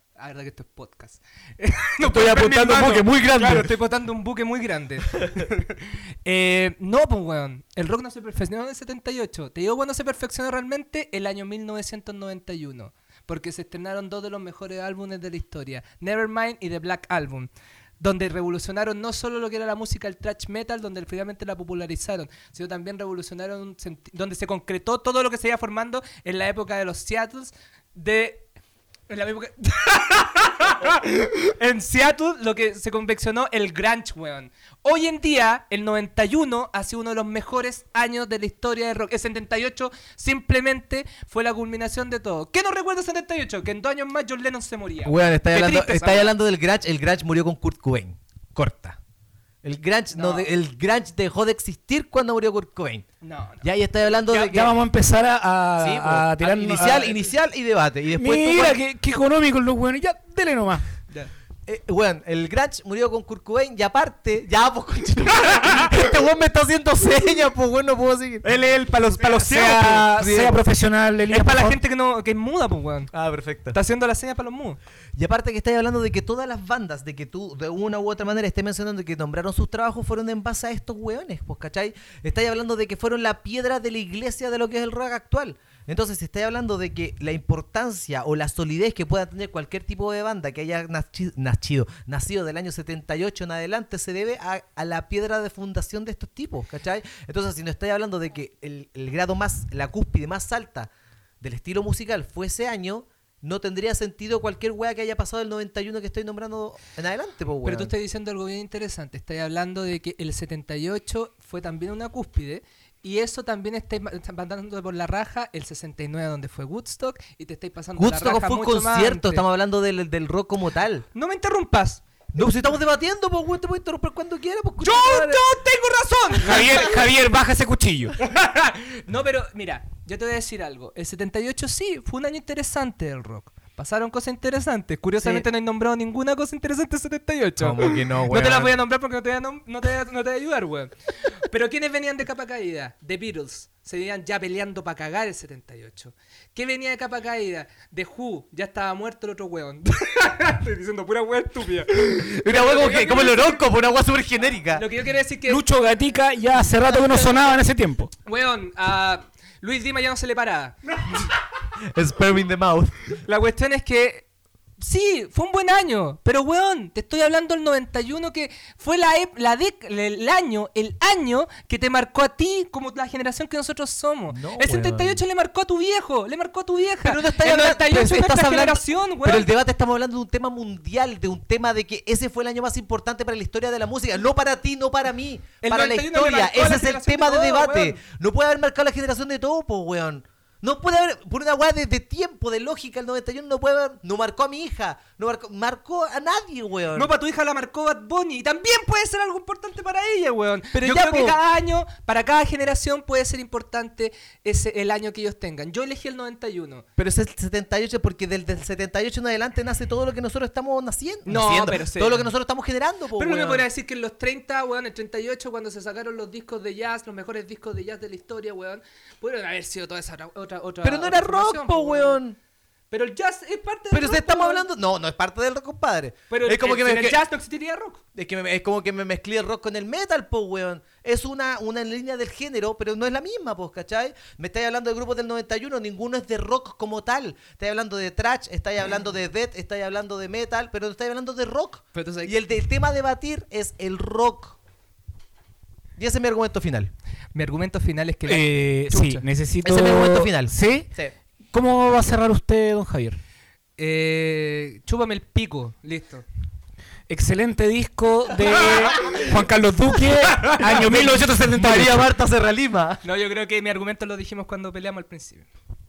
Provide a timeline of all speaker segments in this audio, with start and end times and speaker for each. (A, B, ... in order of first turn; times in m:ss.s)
0:00.2-0:28.4 A
0:02.0-0:03.7 B
0:29.1-0:46.3 A
0:45.0-0:49.0 C
0:49.6-0:53.0 C
0:50.1-0:50.5 A
0:53.2-0:54.1 A
0:53.6-0:54.8 C
0:54.3-0:57.1 B
0:55.8-0:58.8 C
0:58.1-1:00.8 B
1:01.6-1:08.5 C
1:08.5-1:11.8 B
1:08.5-1:10.2 A
1:10.2-1:10.6 C
1:11.3-1:13.1 A
1:13.1-1:13.8 C
1:13.7-1:14.8 A
1:15.2-1:47.9 C
1:47.6-1:59.4 A
1:58.0-2:01.0 C
2:01.1-2:02.0 A
2:02.3-2:05.4 C
2:04.8-2:07.0 A
2:06.4-2:08.2 B
2:08.2-2:33.6 A
2:17.6-2:18.7 C
2:32.1-2:34.8 C
2:34.7-2:35.6 A
2:35.4-2:38.1 B
2:38.2-2:41.3 A
2:41.9-2:43.1 C
2:43.2-2:44.2 A
2:44.8-2:59.5 A
2:54.3-2:55.2 C
2:57.0-3:17.1 C
3:05.6-3:08.0 A
3:16.9-3:26.8 A
3:20.7-3:21.4 C
3:27.0-3:33.6 C
3:31.2-3:32.3 A
3:33.2-3:42.2 A
3:40.8-3:42.4 C
3:42.9-3:44.6 A
3:43.9-3:47.2 C
3:46.3-3:48.0 A
3:48.1-4:04.6 C
4:01.9-4:02.4 A
4:06.0-4:06.9 C
4:07.3-4:09.2 A
4:08.2-4:10.9 B
4:09.6-4:11.1 C
4:11.5-4:13.2 B
4:13.8-4:16.2 A
4:17.1-4:22.1 B
4:20.3-4:20.6 A
4:20.6-4:23.0 C
4:23.0-4:25.5 A